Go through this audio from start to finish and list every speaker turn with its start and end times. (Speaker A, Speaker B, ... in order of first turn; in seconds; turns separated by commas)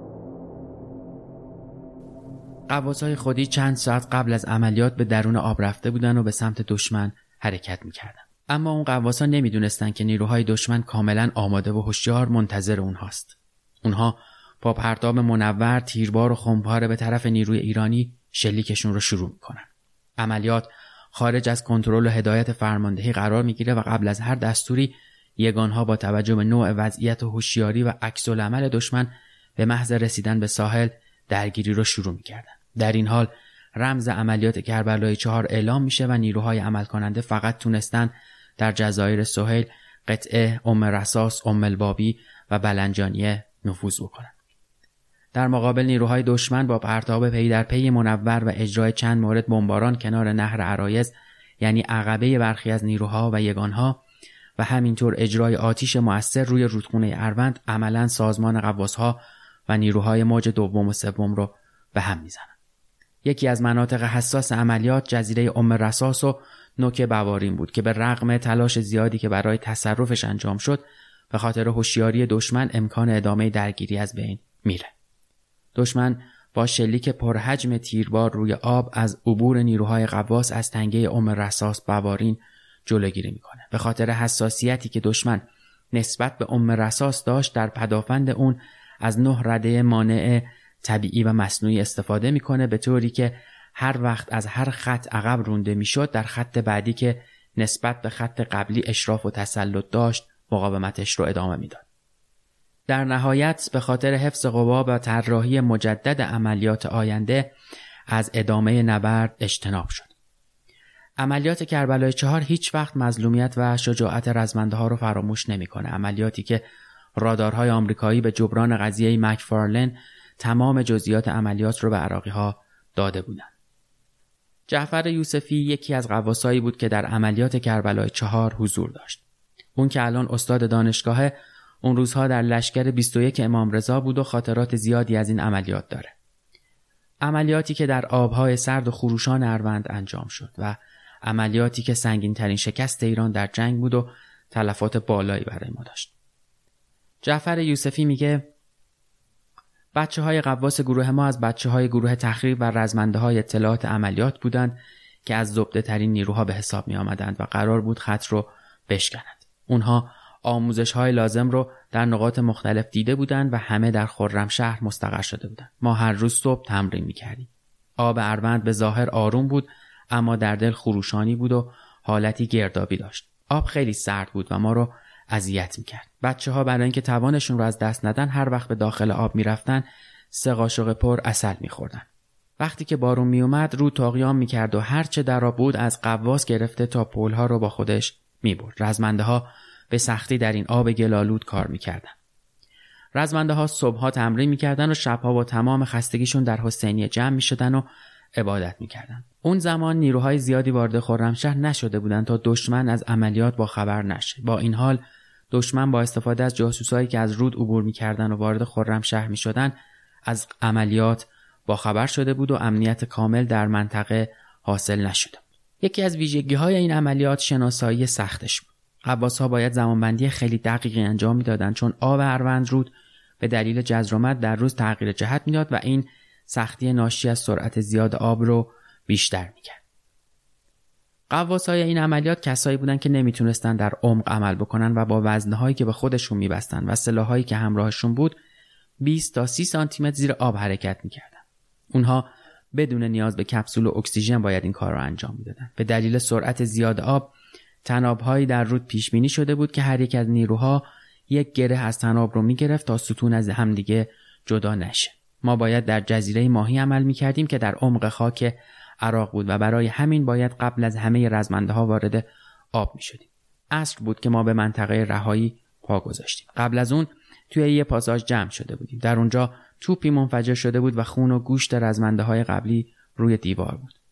Speaker A: 2.7-19.7, Speaker A: 20.2-44.3, Speaker A: 45.3-54.0, Speaker A: 54.6-62.5, Speaker A: 63.2-74.9, Speaker A: 75.8-101.8, Speaker A: 102.9-107.5, Speaker A: 108.1-110.1, Speaker A: 111.2-116.7, Speaker A: 117.2-123.5, Speaker A: 124.7-129.2, Speaker A: 129.8-136.1, Speaker A: 137.2-146.1, Speaker A: 147.2-148.5, Speaker A: 149.9-182.1, Speaker A: 182.6-192.2, Speaker A: 193.2-229.8, Speaker A: 231.3-238.4, Speaker A: 239.0-247.3, Speaker A: 247.8-274.0